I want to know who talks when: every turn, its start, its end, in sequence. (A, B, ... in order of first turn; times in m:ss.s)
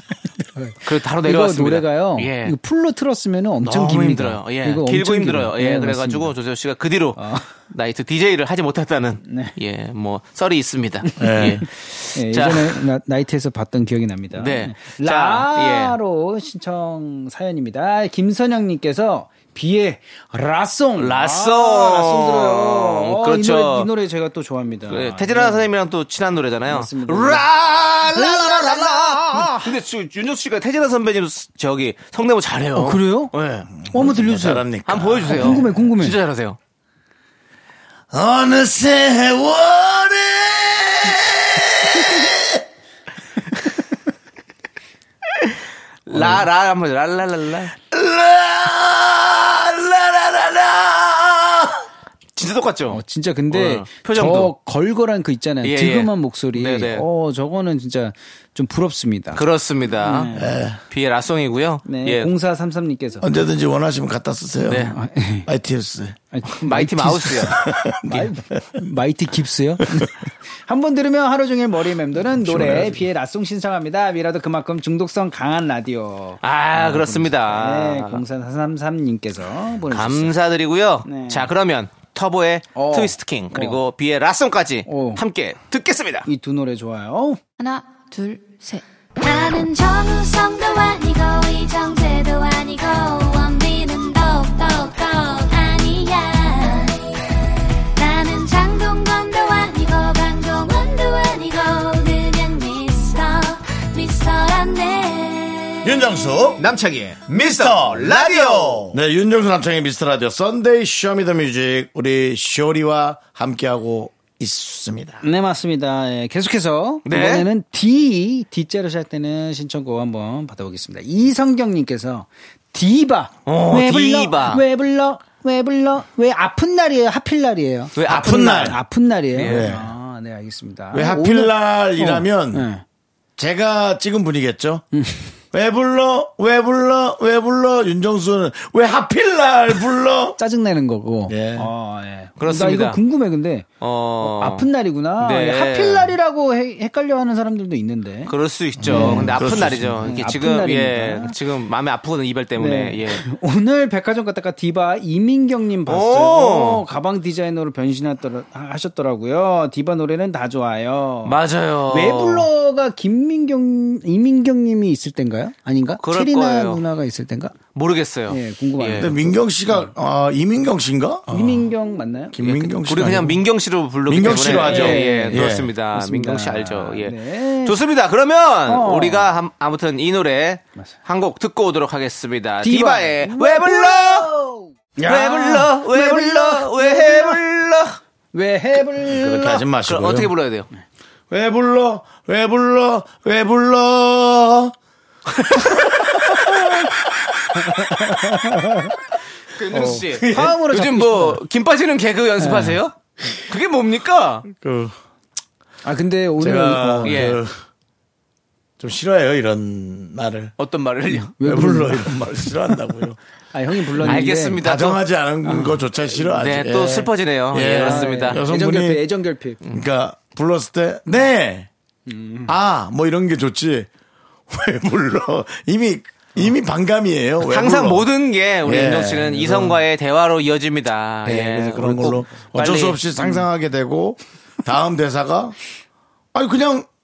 0:00.6-0:06.3 A
0:00.8-0:02.6 B
0:03.6-0:12.8 B
0:07.2-0:07.5 A
0:09.3-0:09.5 A
0:11.2-0:11.6 C
0:12.2-0:25.6 A
0:14.4-0:16.0 B
0:21.0-0:23.9 B
0:24.9-0:33.7 B
0:26.7-0:27.5 A
0:28.1-0:29.7 A
0:32.8-0:33.3 A
0:33.7-0:35.6 C
0:33.9-0:34.6 A
0:34.9-0:36.6 B
0:35.3-0:36.2 A
0:38.1-0:42.6 C
0:46.1-0:47.7 B
0:46.1-0:46.4 A
0:47.9-0:51.8 C
0:52.4-0:54.5 B
0:52.9-0:59.4 A
0:55.6-0:57.0 B
0:59.4-1:02.3 B
1:00.0-1:00.6 A
1:00.3-1:00.8 C
1:01.9-1:03.3 A
1:03.2-1:04.9 C
1:04.7-1:05.0 B
1:04.9-1:05.5 A
1:05.5-1:06.2 C
1:06.3-1:20.3 A
1:06.6-1:07.6 B
1:07.5-1:08.8 C
1:12.3-1:13.0 C
1:16.4-1:18.2 B
1:19.9-1:26.3 B
1:21.0-1:21.5 A
1:22.8-1:23.8 A
1:24.9-1:25.2 A
1:26.3-1:27.4 A
1:27.6-1:37.2 D
1:38.0-1:46.1 D
1:45.8-1:46.6 C
1:46.6-1:48.9 B
1:47.3-1:55.2 C
1:55.2-2:12.8 A
1:57.1-1:57.5 B
2:03.5-2:04.6 B
2:08.0-2:08.8 B
2:08.0-2:08.8 C
2:09.4-2:09.7 B
2:09.4-2:09.9 C
2:10.9-2:12.7 C
2:13.4-2:14.8 C
2:14.9-2:15.3 A
2:15.5-2:20.4 C
2:20.4-2:23.7 A
2:21.3-2:21.7 C
2:22.4-2:23.0 B
2:23.8-2:24.7 B
2:24.2-2:28.3 A
2:25.2-2:26.1 B
2:28.3-2:33.2 B
2:28.8-2:30.1 C
2:28.9-2:29.5 A
2:30.0-2:31.3 A
2:32.6-2:41.4 A
2:35.9-2:36.8 B
2:41.2-2:42.5 B
2:41.9-2:47.6 A
2:46.0-2:46.8 B
2:47.8-2:49.2 B
2:48.3-2:49.9 A
2:49.0-2:51.7 C
2:51.3-2:52.4 A
2:52.3-2:53.4 C
2:52.4-3:04.3 B
2:54.1-2:55.7 C
2:54.3-2:57.7 A
2:58.7-2:59.3 A
3:02.6-3:07.4 A
3:05.1-3:08.0 B
3:08.3-3:09.7 A
3:09.1-3:10.3 C
3:09.9-3:10.7 B
3:11.3-3:14.7 C
3:15.4-3:15.9 B
3:16.9-3:18.5 C
3:17.7-3:18.9 A
3:19.5-3:24.5 B
3:19.7-3:21.4 A
3:19.8-3:20.5 C
3:22.4-3:22.8 A
3:24.6-3:25.0 C
3:25.8-3:27.3 A
3:26.4-3:27.6 C
3:27.0-3:27.4 B
3:28.8-3:30.5 C
3:30.6-3:31.4 B
3:31.1-3:32.2 A
3:31.4-3:33.2 C
3:33.5-3:34.6 A
3:34.0-3:35.0 B
3:34.1-3:39.0 C
3:35.4-3:35.8 A
3:36.3-3:38.4 B
3:37.6-3:39.6 A
3:39.7-3:41.7 C
3:42.1-3:42.5 A
3:42.5-3:43.9 C
3:44.5-3:48.1 C
3:47.5-3:53.0 B
3:48.6-3:49.8 C
3:51.2-3:55.6 C
3:56.3-3:56.9 C